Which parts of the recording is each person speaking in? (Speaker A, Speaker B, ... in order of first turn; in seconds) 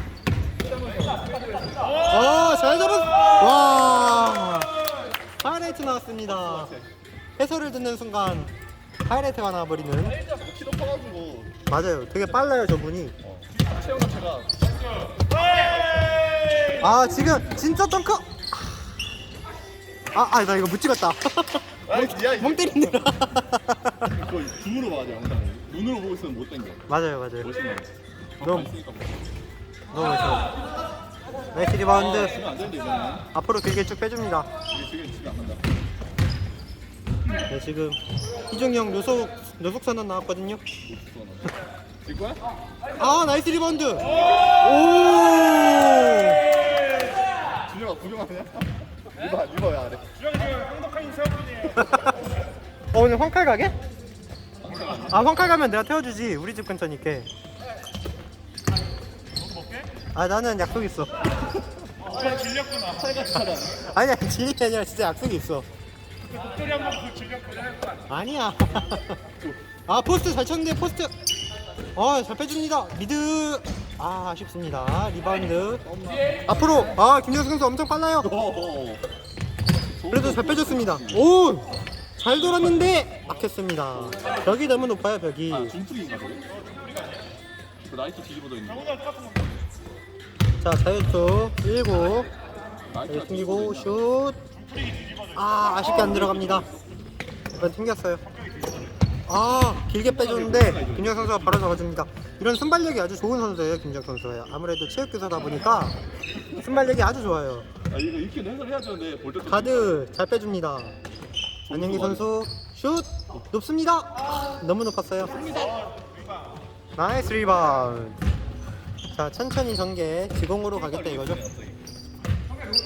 Speaker A: 0.6-2.0, 6.3-6.8, 10.2-11.6, 13.2-14.7, 21.9-23.2, 24.1-26.9, 27.4-29.2, 31.9-33.3, 34.7-35.6, 40.9-42.4, 47.6-50.7, 54.6-55.2, 62.1-63.9, 75.8-76.4, 78.2-79.1, 80.0-81.3, 85.5-86.5, 87.8-89.0, 92.9-94.0, 95.8-96.9, 100.0-101.8, 107.9-110.0, 111.7-112.3, 115.5-115.7, 120.7-121.8
Speaker B: 2.1-4.8, 5.4-6.7, 7.4-8.5, 9.1-10.2, 11.7-13.2, 16.8-18.8, 20.1-24.1, 26.9-27.5, 28.4-28.7, 29.9-30.5, 31.5-32.4, 33.3-34.5, 37.5-40.6, 43.0-46.5, 51.8-52.1, 52.9-53.8, 55.1-57.3, 60.1-61.2, 63.8-65.7, 68.1-69.2, 69.9-71.1, 72.0-75.9, 76.5-78.3, 80.1-85.8, 90.6-92.3, 93.1-94.4, 95.3-96.7, 97.6-98.2, 99.3-106.0, 106.5-107.7, 109.5-111.0, 111.7-115.4, 117.0-118.2, 119.1-121.4